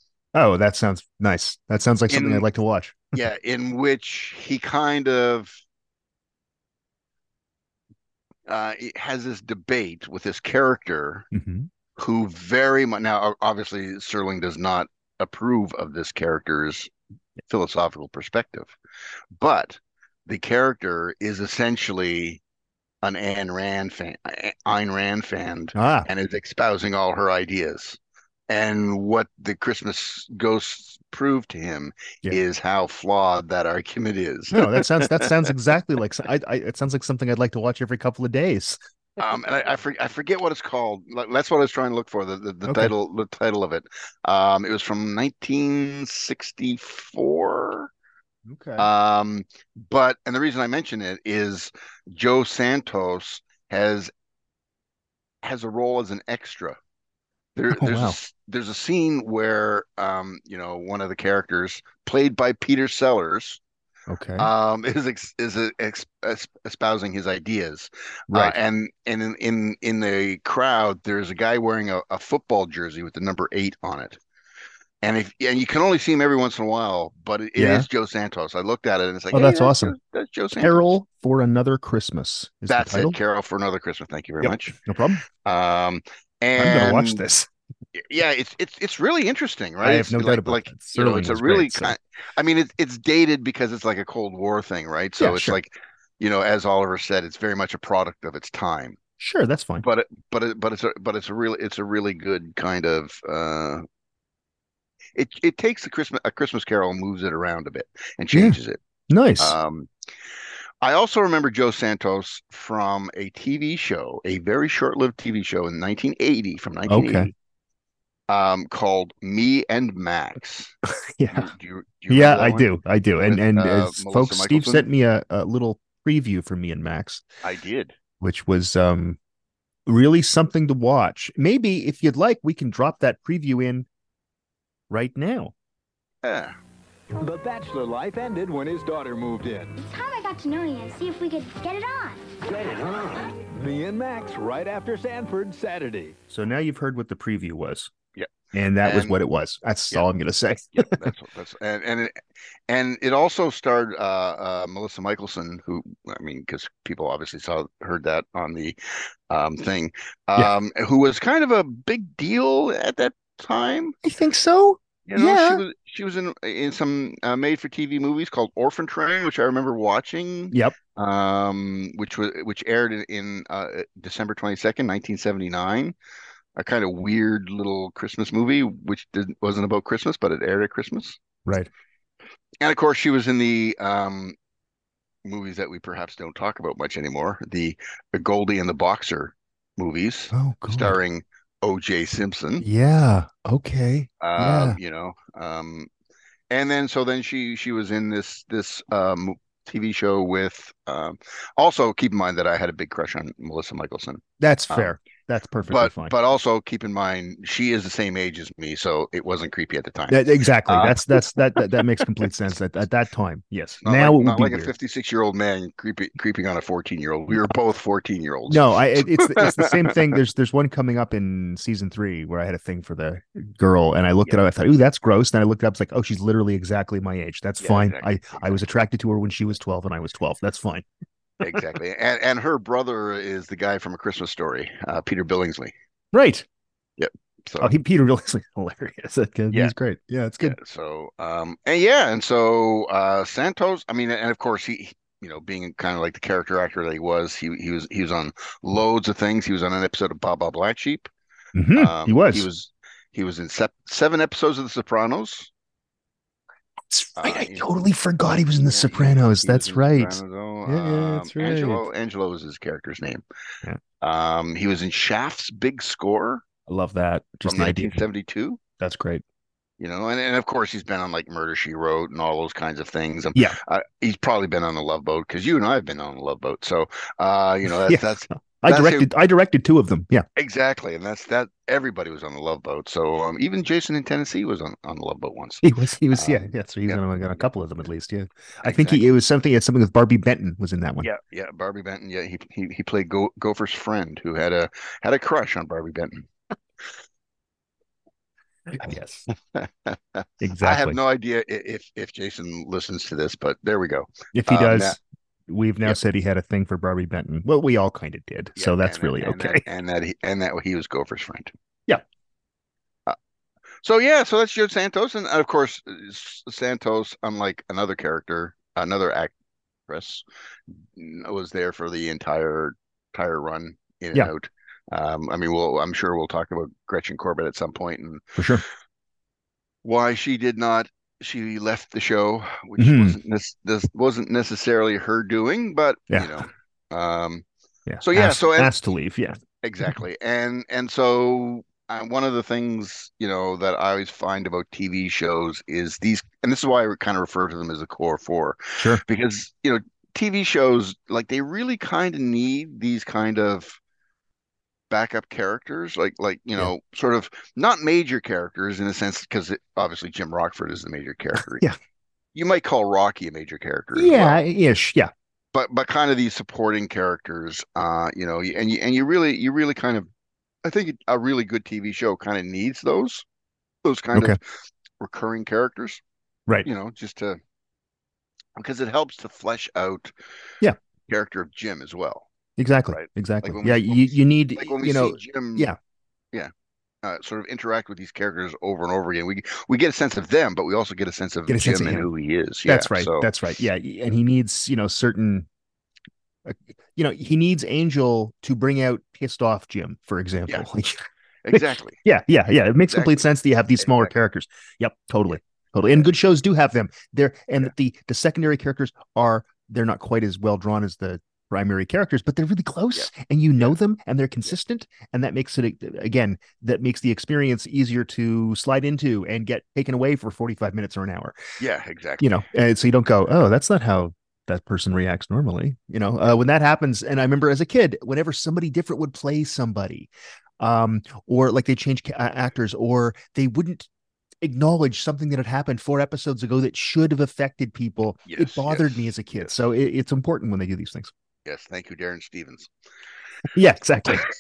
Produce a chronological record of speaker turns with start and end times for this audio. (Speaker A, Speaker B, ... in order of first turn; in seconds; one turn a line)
Speaker A: 0.3-3.1
Speaker B: 2.1-2.5
Speaker B: 3.1-5.6
Speaker B: 8.5-11.3
Speaker A: 11.3-11.7
Speaker B: 12.0-16.9
Speaker B: 17.5-18.8
Speaker B: 19.4-22.4
Speaker B: 23.0-35.5
Speaker A: 25.8-26.1
Speaker A: 34.5-38.8
Speaker B: 39.2-47.9
Speaker A: 42.7-42.9
Speaker A: 48.5-48.9
Speaker B: 48.8-54.1
Speaker B: 55.4-56.8
Speaker B: 57.6-63.6
Speaker A: 57.7-58.2
Speaker A: 64.1-64.5
Speaker B: 64.4-74.2
Speaker A: 68.3-68.6
Speaker B: 75.0-80.8
Speaker A: 77.6-77.9
Speaker A: 79.3-80.0
Speaker A: 80.6-83.2
Speaker B: 82.7-84.8
Speaker A: 84.4-85.2
Speaker B: 85.4-87.2
Speaker A: 86.6-87.5
Speaker B: 88.0-99.0
Speaker A: 89.8-92.0
Speaker A: 95.2-95.6
Speaker A: 99.2-99.9
Speaker B: 99.8-103.8
Speaker B: 105.2-108.8
Speaker A: 109.1-109.6
Speaker B: 109.4-109.9
Speaker B: 110.8-117.3
Speaker A: 116.9-117.3
Speaker B: 118.3-120.8
Speaker A: 120.9-121.5
Speaker B: 121.3-124.9
Speaker A: 122.1-127.2
Speaker B: 127.4-128.0
Speaker A: 128.2-129.2
Speaker A: 129.9-133.9
Speaker A: 134.9-135.5
Speaker B: 136.2-136.6
Speaker C: 137.2-139.8
Speaker D: 139.8-142.4
Speaker C: 142.4-146.2
Speaker A: 146.3-147.9
Speaker A: 148.5-151.1
Speaker B: 148.8-149.2
Speaker B: 150.7-158.8
Speaker B: 159.3-164.0
Speaker A: 164.0-165.6
Speaker B: 165.1-175.9
Speaker B: 176.6-181.2
Speaker A: 181.4-181.7
Speaker B: 182.6-184.4
Speaker B: 185.2-192.7
Speaker A: 190.3-191.0
Speaker A: 192.6-194.8
Speaker B: 194.2-195.9
Speaker B: 196.5-204.9
Speaker A: 204.4-206.2
Speaker B: 205.7-211.4
Speaker A: 210.1-214.7
Speaker B: 213.8-220.2
Speaker A: 218.5-230.9
Speaker B: 227.6-228.7
Speaker B: 231.4-235.7
Speaker A: 236.1-236.5
Speaker B: 237.0-237.7
Speaker A: 237.6-240.6
Speaker B: 240.4-251.1
Speaker A: 251.6-252.5
Speaker B: 251.8-255.5
Speaker A: 256.9-261.9
Speaker B: 257.2-257.7
Speaker B: 258.5-263.2
Speaker B: 264.0-266.4
Speaker A: 266.7-268.1
Speaker B: 267.4-268.6
Speaker A: 268.8-269.2
Speaker B: 269.8-279.1
Speaker A: 277.7-280.3
Speaker B: 280.4-287.0
Speaker A: 285.6-291.1
Speaker B: 288.6-289.0
Speaker B: 291.0-296.3
Speaker A: 298.7-299.3
Speaker B: 299.3-305.0
Speaker A: 300.4-301.0
Speaker A: 304.3-309.6
Speaker B: 308.6-311.5
Speaker B: 313.8-319.3
Speaker B: 319.9-320.2
Speaker B: 320.9-328.4
Speaker A: 328.4-328.6
Speaker B: 329.8-337.4
Speaker A: 332.8-333.2
Speaker A: 336.1-336.5
Speaker A: 337.9-340.0
Speaker B: 338.0-338.7
Speaker B: 339.6-353.8
Speaker A: 348.8-349.0
Speaker B: 354.9-361.6
Speaker A: 361.4-361.8
Speaker B: 362.4-364.4
Speaker A: 363.9-365.1
Speaker B: 365.5-370.1
Speaker B: 370.6-373.2
Speaker B: 373.8-374.4
Speaker B: 375.0-376.0
Speaker B: 376.6-377.4
Speaker B: 378.6-380.1
Speaker B: 381.1-382.3
Speaker A: 382.6-385.8
Speaker B: 382.9-385.7
Speaker B: 387.0-393.3
Speaker A: 391.5-392.1
Speaker A: 392.6-395.5
Speaker A: 396.4-421.4
Speaker B: 401.4-402.0
Speaker B: 402.9-403.3
Speaker B: 403.8-404.1
Speaker B: 412.9-413.8
Speaker B: 421.6-422.4
Speaker A: 422.2-433.9
Speaker A: 434.4-441.1
Speaker B: 438.3-439.5
Speaker B: 441.4-442.7
Speaker A: 443.5-444.2